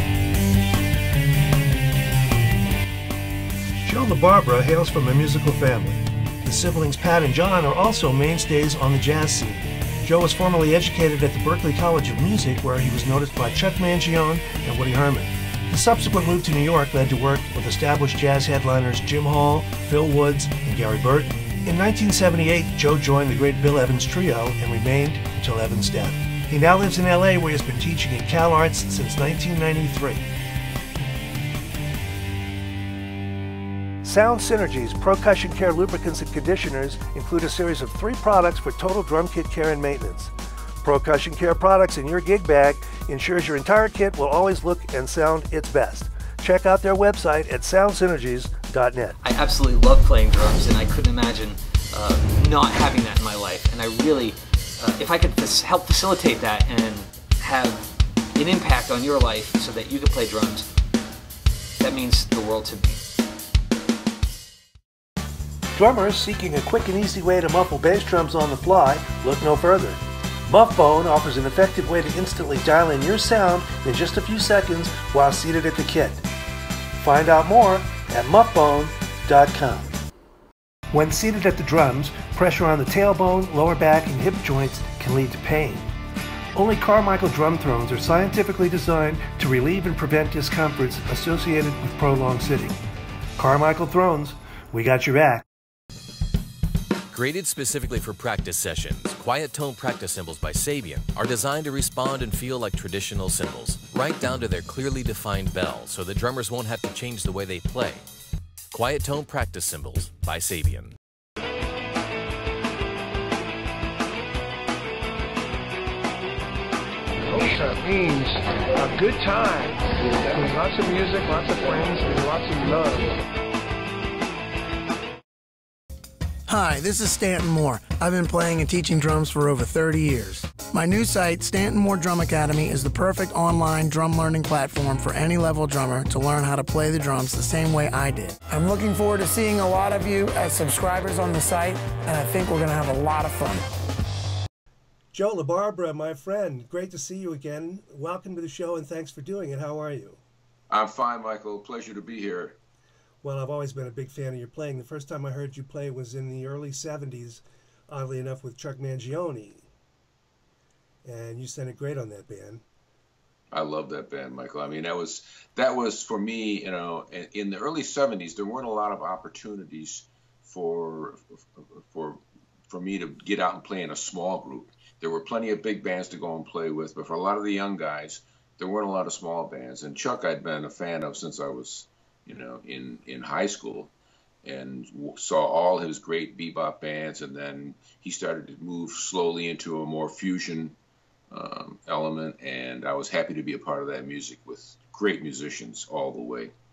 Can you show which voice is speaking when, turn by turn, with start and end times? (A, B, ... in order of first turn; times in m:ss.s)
0:03.8-0:30.3 A
0:34.0-0:49.2 A
0:49.2-1:00.7 B
1:01.8-1:03.0 B
1:05.8-1:16.2 A
1:17.0-1:20.0 A
1:20.9-1:25.9 A
1:26.5-1:32.8 A
1:33.4-1:35.4 A
1:37.1-1:48.0 C
1:48.7-1:50.9 C
1:57.3-2:03.1 D
2:06.5-2:23.7 E
2:25.1-2:30.2 A
2:30.7-2:32.6 F
2:33.2-2:39.6 A
2:41.0-2:42.6 A
2:43.5-3:03.9 F
3:04.4-3:10.8 F
3:11.3-3:16.5 F